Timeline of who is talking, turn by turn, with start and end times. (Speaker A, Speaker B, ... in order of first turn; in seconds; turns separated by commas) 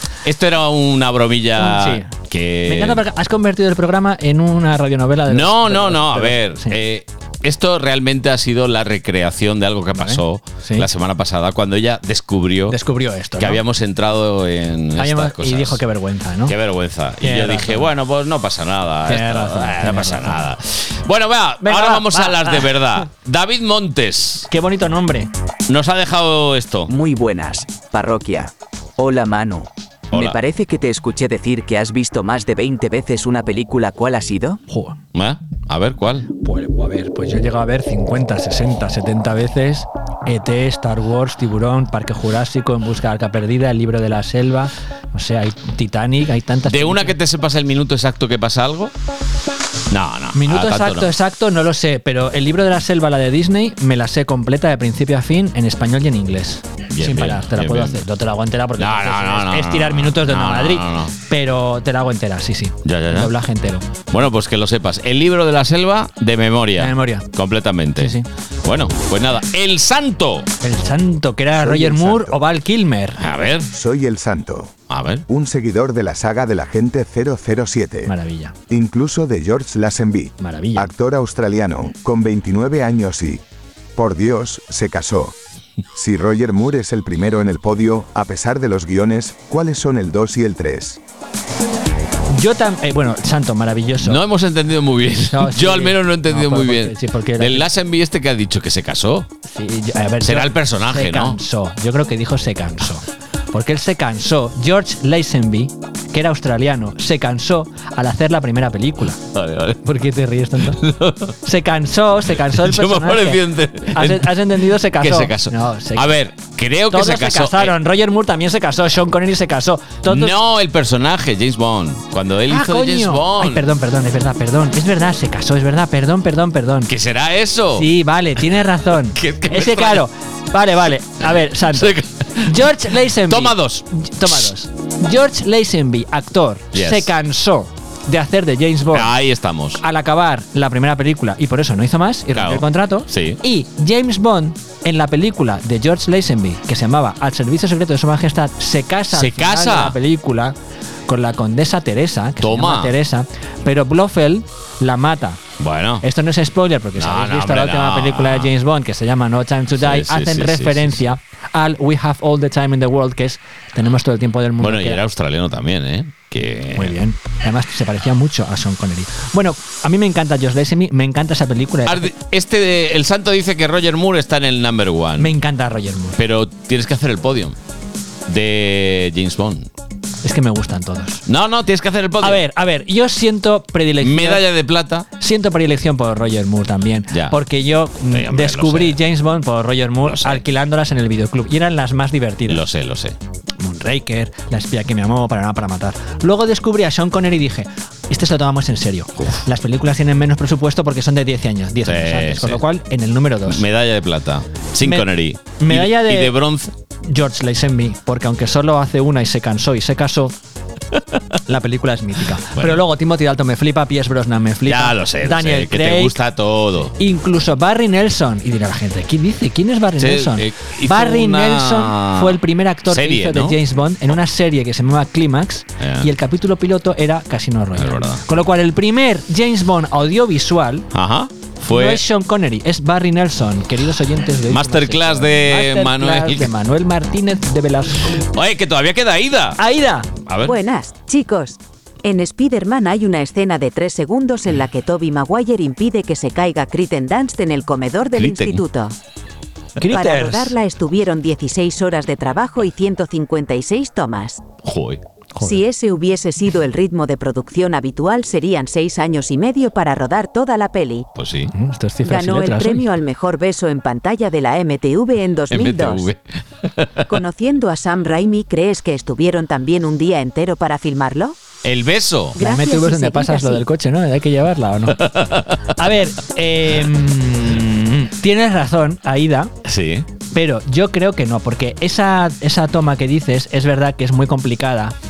Speaker A: 0.2-3.0, Speaker B: 1.6-2.1, Speaker B: 2.7-6.8, Speaker A: 5.3-12.8, Speaker B: 9.9-10.9, Speaker B: 12.7-13.6, Speaker A: 13.4-15.8, Speaker B: 15.0-16.6, Speaker A: 16.5-24.5, Speaker B: 17.2-17.9, Speaker B: 19.1-20.4, Speaker B: 21.6-22.9, Speaker B: 24.5-25.3, Speaker A: 25.7-26.9, Speaker C: 26.9-34.6, Speaker A: 30.1-30.4, Speaker B: 34.7-35.0, Speaker A: 35.1-36.3, Speaker B: 36.4-47.1, Speaker A: 46.7-48.9, Speaker A: 49.9-51.1, Speaker B: 50.3-63.9, Speaker A: 56.9-58.0, Speaker A: 58.8-61.1, Speaker A: 62.8-63.3, Speaker A: 64.1-70.5, Speaker B: 66.8-67.3, Speaker B: 68.0-68.3, Speaker B: 70.6-73.2, Speaker D: 71.6-72.4, Speaker A: 73.2-73.7, Speaker D: 73.7-74.7, Speaker A: 74.9-75.2, Speaker D: 75.3-78.1, Speaker B: 78.1-78.5, Speaker D: 78.7-83.4, Speaker B: 80.4-80.9, Speaker D: 84.0-85.3, Speaker D: 86.0-91.0, Speaker B: 92.3-94.2, Speaker A: 94.0-99.3, Speaker B: 95.3-97.7, Speaker B: 99.5-109.2, Speaker A: 100.2-101.4, Speaker A: 109.3-109.8, Speaker B: 109.8-110.8, Speaker A: 110.6-111.3, Speaker B: 111.4-116.2, Speaker A: 112.5-117.8, Speaker B: 116.9-120.3, Speaker A: 120.1-123.7, Speaker B: 122.5-126.9, Speaker A: 126.9-127.9, Speaker B: 127.8-139.1, Speaker A: 129.1-130.1, Speaker A: 131.7-132.6, Speaker A: 133.3-134.4, Speaker A: 136.7-137.1, Speaker A: 138.9-139.8, Speaker B: 139.8-150.6, Speaker A: 142.3-143.4, Speaker A: 149.1-150.0, Speaker B: 151.1-155.4, Speaker A: 152.4-152.9, Speaker A: 155.6-156.0, Speaker B: 156.0-165.0, Speaker A: 157.0-158.5, Speaker A: 159.7-161.0, Speaker A: 164.6-167.0, Speaker B: 166.8-172.1, Speaker A: 171.9-175.3, Speaker B: 175.2-176.2, Speaker A: 176.2-177.6, Speaker A: 178.3-179.7, Speaker B: 180.2-181.2, Speaker A: 181.3-182.4, Speaker B: 182.2-184.4, Speaker A: 184.0-185.1, Speaker B: 185.2-192.6, Speaker A: 187.1-187.4, Speaker A: 188.1-189.0, Speaker A: 190.0-190.4, Speaker A: 192.5-193.2, Speaker B: 193.6-203.6, Speaker A: 201.8-202.6, Speaker A: 203.5-206.7, Speaker B: 205.6-206.4, Speaker B: 207.0-210.3, Speaker B: 211.5-216.2, Speaker A: 212.6-212.8, Speaker A: 214.7-216.9, Speaker B: 216.9-230.9, Speaker A: 220.0-223.6, Speaker A: 225.8-226.1, Speaker A: 227.8-228.2, Speaker A: 230.9-232.0, Speaker B: 231.7-238.2, Speaker A: 234.5-236.5, Speaker A: 238.3-239.6, Speaker B: 239.6-240.1, Speaker A: 240.3-240.6, Speaker E: 240.4-248.9, Speaker A: 248.2-248.6, Speaker B: 249.8-250.5, Speaker E: 249.9-254.4, Speaker A: 254.6-255.0, Speaker E: 255.4-261.1, Speaker A: 261.2-261.5, Speaker B: 261.5-262.9, Speaker E: 262.1-266.1, Speaker A: 265.5-267.1, Speaker E: 267.1-271.4, Speaker A: 271.6-272.4, Speaker E: 272.4-273.6, Speaker B: 272.4-275.0, Speaker A: 274.9-275.8, Speaker B: 275.8-279.5, Speaker A: 279.6-280.1, Speaker B: 280.3-284.9